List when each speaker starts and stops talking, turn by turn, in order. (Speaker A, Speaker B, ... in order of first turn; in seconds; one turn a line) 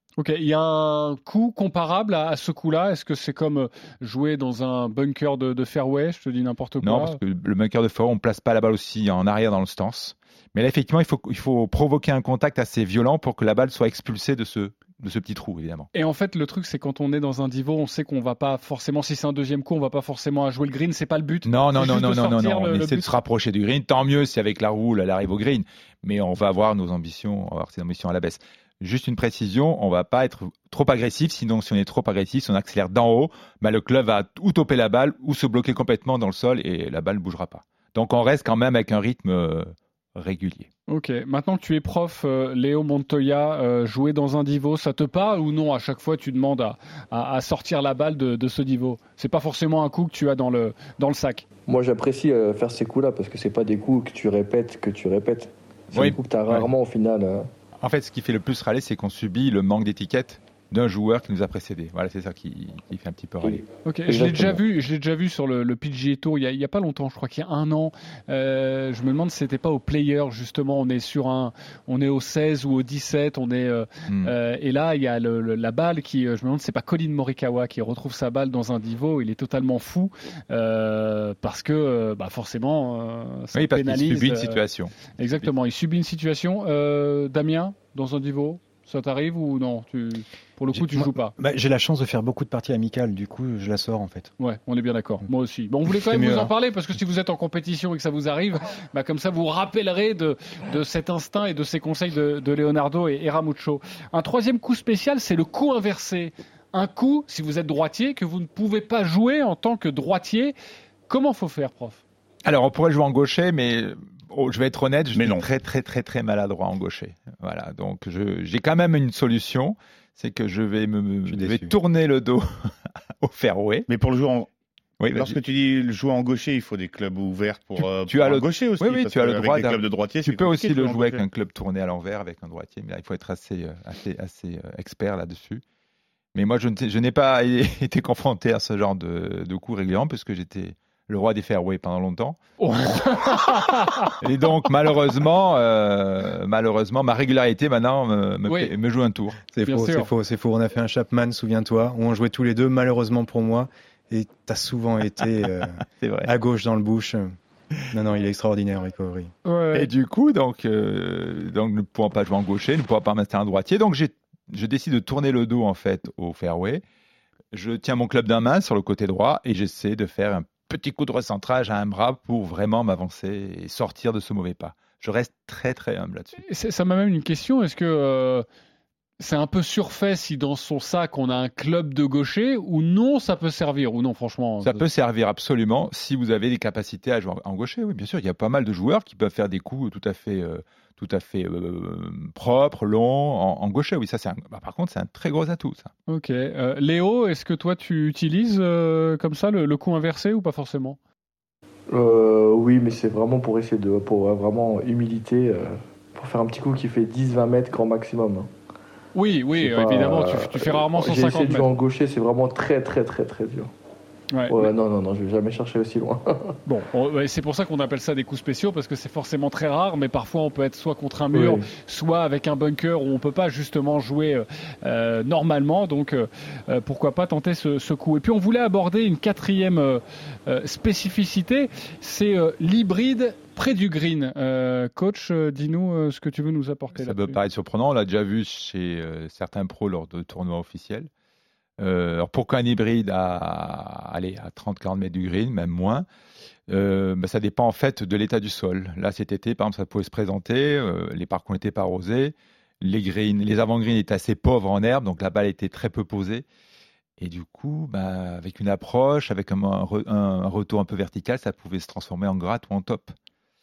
Speaker A: 0.2-7.2
Speaker B: 6.8-15.9
Speaker A: 15.9-23.1
Speaker B: 21.5-40.7
Speaker A: 40.9-51.5
Speaker C: 51.7-57.5
Speaker B: 55.9-56.7
Speaker B: 57.8-63.6
Speaker C: 63.4-64.6
Speaker A: 63.9-84.6
Speaker B: 74.1-74.3
Speaker B: 83.5-85.5
Speaker A: 85.2-91.3
Speaker D: 91.0-94.3
Speaker A: 94.4-110.5
Speaker D: 95.9-96.5
Speaker A: 111.1-112.0
Speaker B: 112.5-123.9
Speaker E: 115.1-115.4
Speaker D: 121.3-121.8
Speaker E: 123.9-124.5
Speaker B: 125.0-125.4
Speaker E: 125.1-131.2
Speaker B: 127.8-135.6
Speaker B: 136.3-142.4
Speaker A: 142.6-144.1
Speaker B: 144.1-149.4
Speaker D: 149.5-157.3
Speaker A: 149.7-150.1
Speaker B: 156.0-156.3
Speaker D: 157.9-159.3
Speaker A: 159.5-159.9
Speaker B: 159.7-166.8
Speaker B: 167.5-176.4
Speaker A: 176.4-178.4
Speaker A: 179.2-184.8
Speaker B: 184.6-195.9
Speaker A: 196.1-201.0
Speaker C: 201.9-208.5
Speaker A: 209.2-211.7
Speaker C: 209.6-213.7
Speaker A: 214.3-214.7
Speaker C: 214.5-216.6
Speaker A: 216.7-237.4
Speaker C: 221.3-221.7
Speaker B: 236.9-241.1
Speaker B: 241.8-246.1
Speaker B: 246.7-256.4
Speaker B: 257.2-263.1